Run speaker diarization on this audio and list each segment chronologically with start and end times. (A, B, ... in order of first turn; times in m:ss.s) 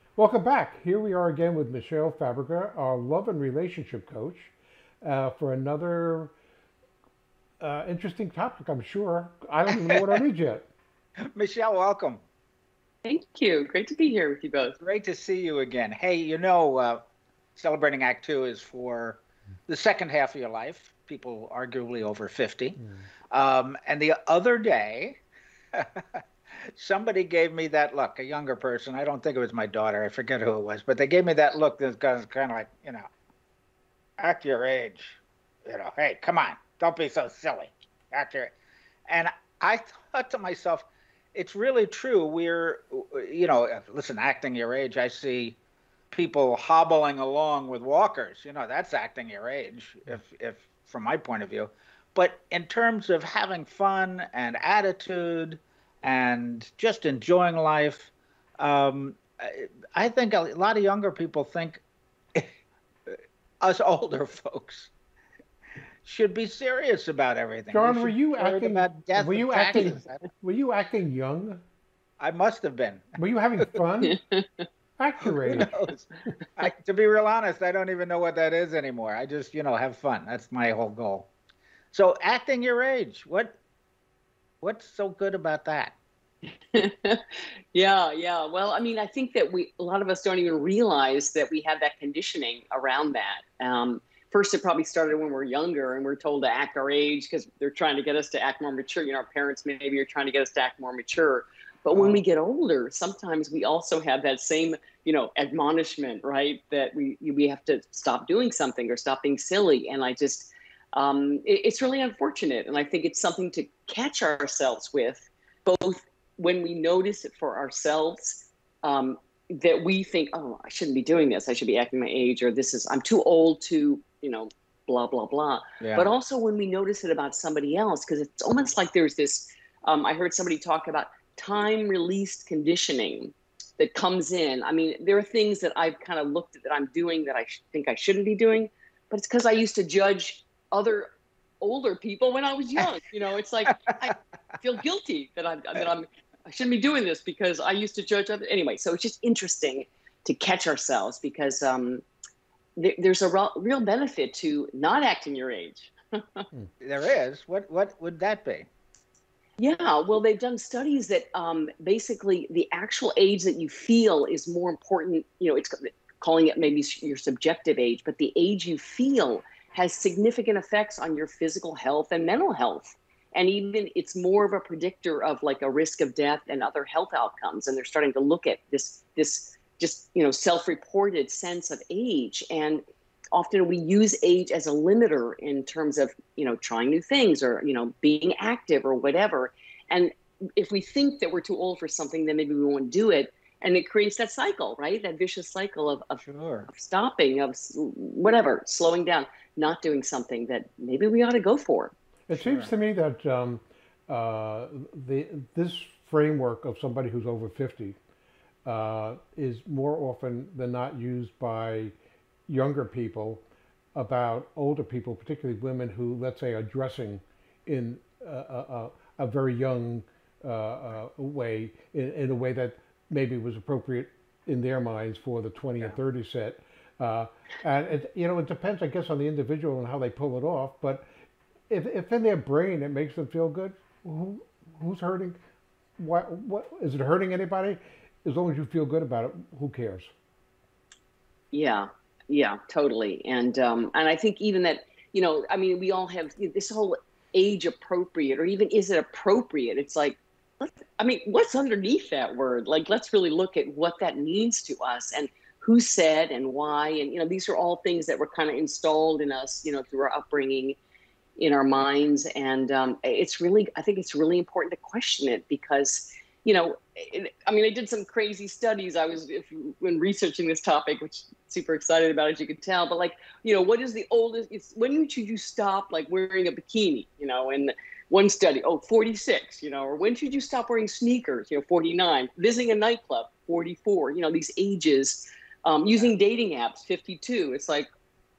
0:00.2-0:06.4 A
0:07.6-0:10.7 A
0:11.3-0:12.2 B
0:13.0-0:14.8 C
0:14.8-0:17.0 B
0:17.6-0:25.2 B
0:25.8-0:26.2 B
0:26.8-0:33.1 B
0:34.2-0:38.5 B
0:39.1-0:45.6 B
0:46.1-1:01.8 B
1:03.6-1:04.9 B
1:06.0-1:10.2 B
1:07.7-1:11.6 A
1:12.2-1:13.1 B
1:13.2-1:14.2 A
1:14.0-1:14.6 C
1:15.0-1:15.7 A
1:15.3-1:21.3 B
1:21.9-1:23.6 B
1:24.6-1:26.0 B
1:26.7-2:21.1 C
1:41.9-1:42.2 B
2:05.8-2:06.1 B
2:21.6-2:32.0 C
2:32.8-2:36.4 C
2:36.8-2:38.7 B
2:39.6-3:22.0 C
3:16.2-3:16.7 B
3:22.3-3:28.0 A
3:22.3-3:22.7 B
3:28.6-3:31.9 A
3:32.5-3:33.4 A
3:34.0-3:51.1 A
3:51.7-3:55.4 A
3:56.0-4:00.1 A
4:01.5-4:20.8 C
4:21.4-4:47.9 C